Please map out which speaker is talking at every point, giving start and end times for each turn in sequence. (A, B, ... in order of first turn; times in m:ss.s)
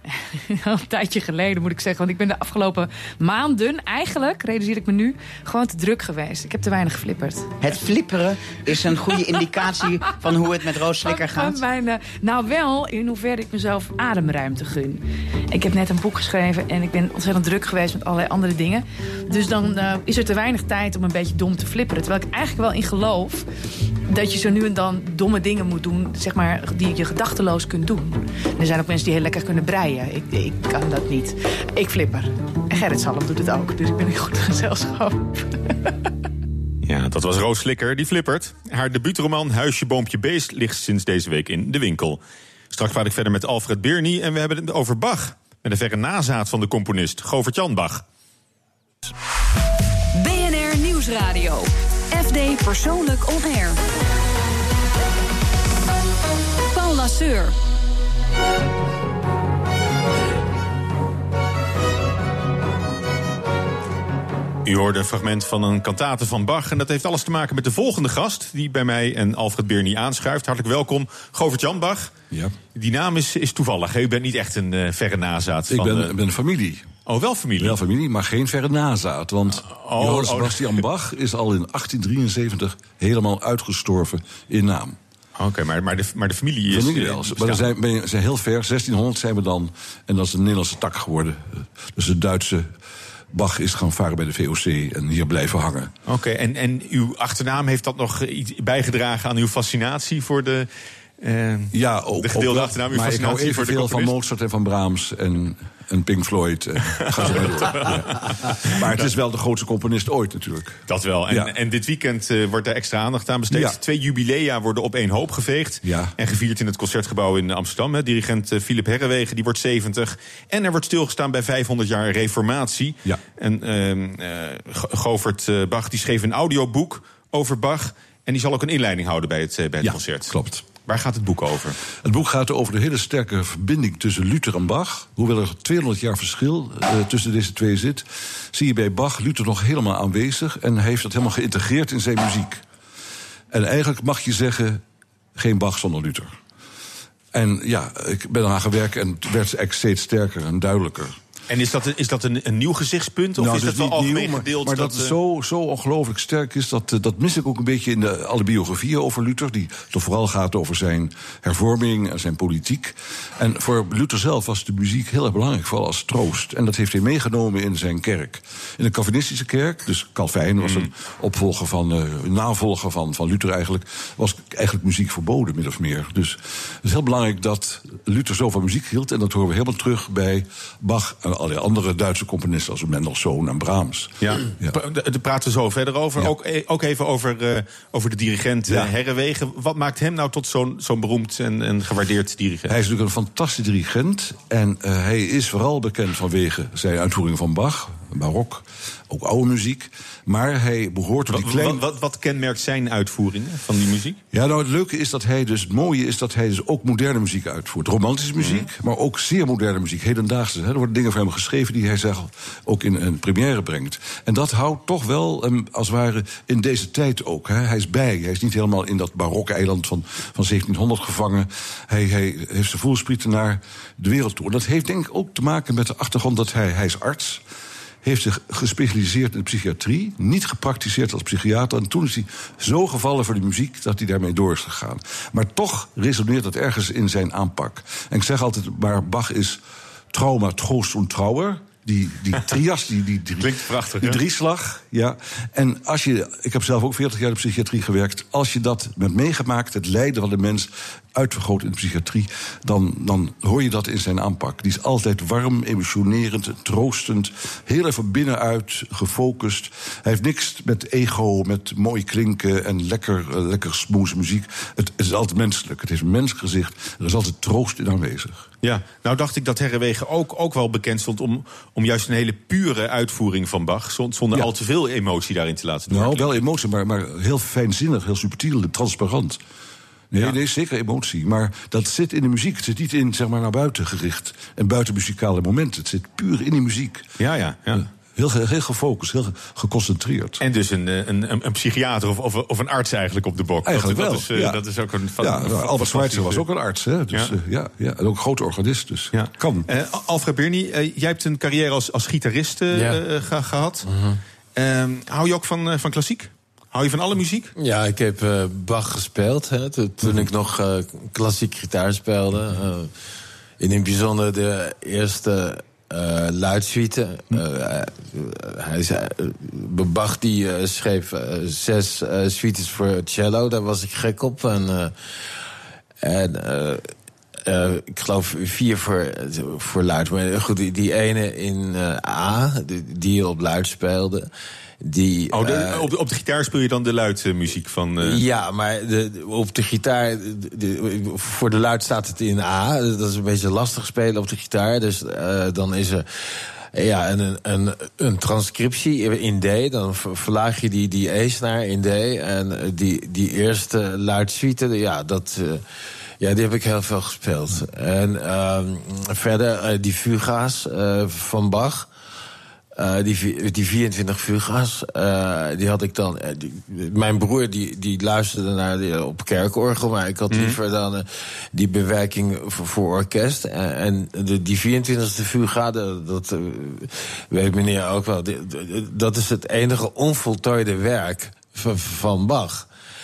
0:00.2-0:07.5 A
0:07.6-0:11.6 B
0:11.0-0:23.5 A
0:24.1-0:35.9 A
0:36.8-0:42.2 C
0:42.7-0:48.0 C
0:50.1-0:53.8 D
0:56.7-0:57.6 D
1:04.6-1:12.1 C
1:12.3-1:12.6 E
1:12.8-1:16.2 C
1:15.7-1:16.9 E
1:17.1-1:17.8 C
1:17.6-1:25.0 E
1:19.6-1:20.9 C
1:25.4-1:27.7 C
1:26.7-1:32.7 E
1:33.3-1:35.9 E
1:36.1-1:40.7 C
1:41.2-1:44.1 C
1:41.7-1:51.5 E
1:46.9-1:49.1 C
1:50.9-2:11.8 C
1:53.5-1:53.8 E
1:55.8-1:56.2 E
2:09.8-2:10.7 E
2:12.0-2:22.6 E
2:23.5-2:24.8 E
2:25.4-2:26.4 E
2:27.3-2:31.2 E
2:31.5-2:35.2 C
2:33.4-3:04.8 E
2:50.6-2:50.9 C
3:04.2-3:12.8 C
3:08.7-3:08.9 E
3:12.7-3:21.8 E
3:21.3-3:24.2 C
3:24.3-3:47.4 E
3:28.4-3:28.7 C
3:48.0-3:59.6 E
4:00.1-4:28.5 E
4:03.4-4:04.2 C
4:28.6-4:36.4 C
4:35.9-4:39.4 E
4:40.1-4:47.1 E
4:47.2-4:47.9 C
4:47.8-4:50.4 E
4:50.4-4:56.4 C
4:53.6-4:54.6 E
4:55.2-4:59.7 E
4:59.1-5:03.9 C
5:02.7-5:03.0 F
5:03.8-5:04.2 F
5:04.6-5:07.5 C
5:07.6-5:12.9 F
5:13.6-5:24.9 F
5:26.0-5:26.9 F
5:27.5-5:34.3 F
5:34.8-5:35.9 F
5:35.3-5:38.2 C
5:38.0-5:55.6 F
5:56.2-6:01.9 F
6:02.8-6:22.7 F
6:10.3-6:10.6 C